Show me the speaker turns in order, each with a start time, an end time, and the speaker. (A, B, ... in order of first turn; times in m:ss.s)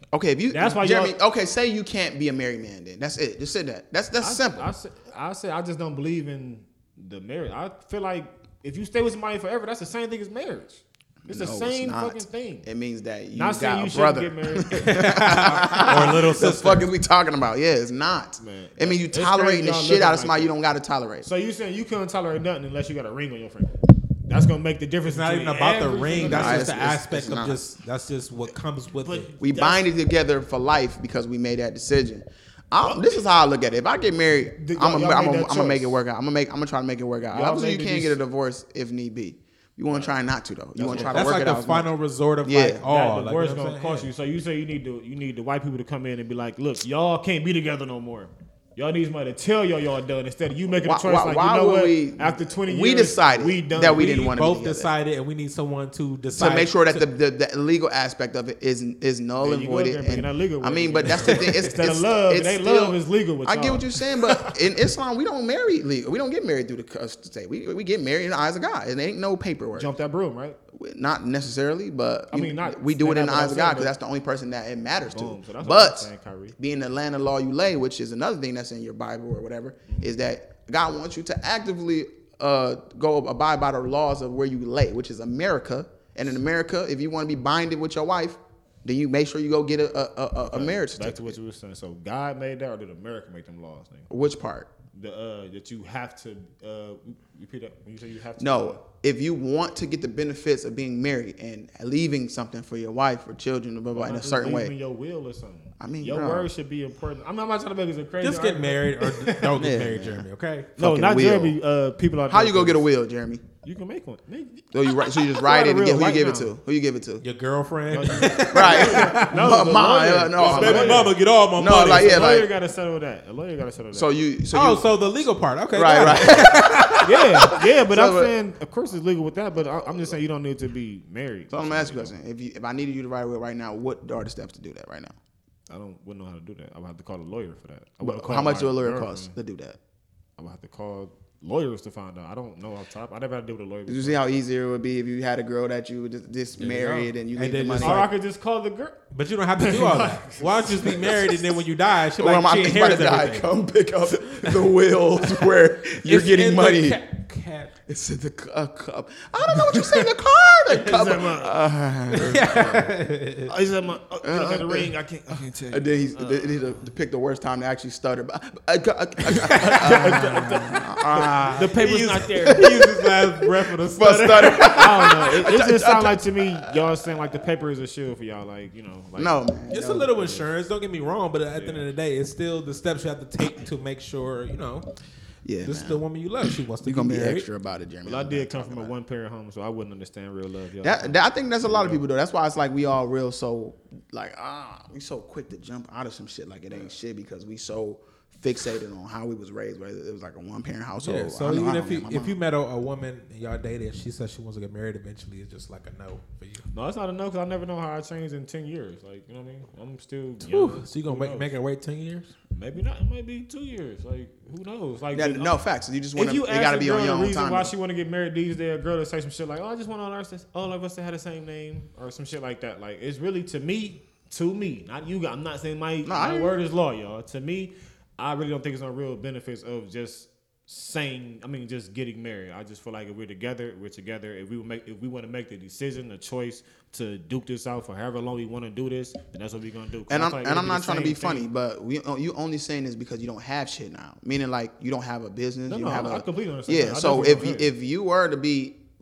0:00.1-0:04.7 A
0:00.5-0:01.2 B
0:04.2-0:12.7 B
0:11.2-0:21.3 A
0:13.3-0:15.0 B
0:14.8-0:16.9 C
0:15.7-0:16.0 B
0:18.4-0:20.6 B
0:21.2-0:26.8 B
0:25.0-0:29.3 C
0:26.2-0:27.6 A
0:29.0-0:29.9 B
0:29.4-0:41.9 A
0:32.8-0:33.2 B
0:34.6-0:36.0 B
0:37.3-0:38.2 B
0:39.9-0:40.1 B
0:40.8-0:41.4 B
0:40.9-0:44.1 C
0:42.4-0:42.8 A
0:42.8-0:54.2 B
0:50.8-0:54.9 A
0:53.9-0:57.0 C
0:56.3-1:09.9 A
0:59.4-1:04.6 B
1:01.1-1:01.5 C
1:09.7-1:10.6 B
1:10.7-1:31.4 A
1:12.3-1:13.9 B
1:15.1-1:16.6 B
1:30.5-1:34.1 B
1:34.1-1:34.7 A
1:34.9-1:38.8 B
1:38.4-1:44.7 A
1:43.9-1:49.5 B
1:45.8-1:46.5 A
1:48.2-1:50.7 C
1:49.5-1:51.6 A
1:50.8-1:52.9 B
1:52.3-1:53.4 A
1:53.6-1:56.5 B
1:54.7-1:57.2 A
1:57.2-1:59.6 C
1:57.9-2:01.2 B
1:58.5-2:02.5 A
2:00.4-2:02.2 C
2:01.7-2:04.1 B
2:03.9-2:04.9 A
2:04.5-2:07.5 C
2:05.7-2:08.3 A
2:07.0-2:12.1 B
2:11.5-2:15.2 A
2:15.7-2:19.4 B
2:18.0-2:19.8 A
2:20.4-2:24.2 B
2:23.9-2:28.1 A
2:26.6-2:27.1 B
2:27.3-2:28.1 C
2:27.8-2:29.0 B
2:29.1-2:33.5 C
2:29.6-2:31.2 B
2:31.0-2:31.3 A
2:32.2-2:37.0 A
2:35.2-2:35.5 C
2:36.0-2:37.7 C
2:37.9-2:42.8 A
2:40.7-2:42.9 B
2:42.1-2:43.5 C
2:43.5-2:46.7 B
2:44.2-2:44.9 A
2:45.7-2:51.8 A
2:49.3-2:55.3 C
2:49.4-2:52.7 B
2:52.5-2:52.9 A
2:53.9-2:56.8 A
2:54.6-2:59.4 B
2:59.2-3:00.4 A
2:59.7-3:04.9 C
3:01.6-3:01.8 B
3:05.4-3:06.0 A
3:05.6-3:07.4 C
3:06.8-3:08.9 A
3:08.0-3:12.0 B
3:10.8-3:22.4 A
3:21.0-3:26.7 C
3:26.7-3:31.5 B
3:30.4-3:32.3 C
3:32.6-3:35.6 B
3:35.1-3:37.7 A
3:36.1-4:01.5 B
3:46.0-3:46.6 A
4:00.1-4:08.8 A
4:05.7-4:07.7 B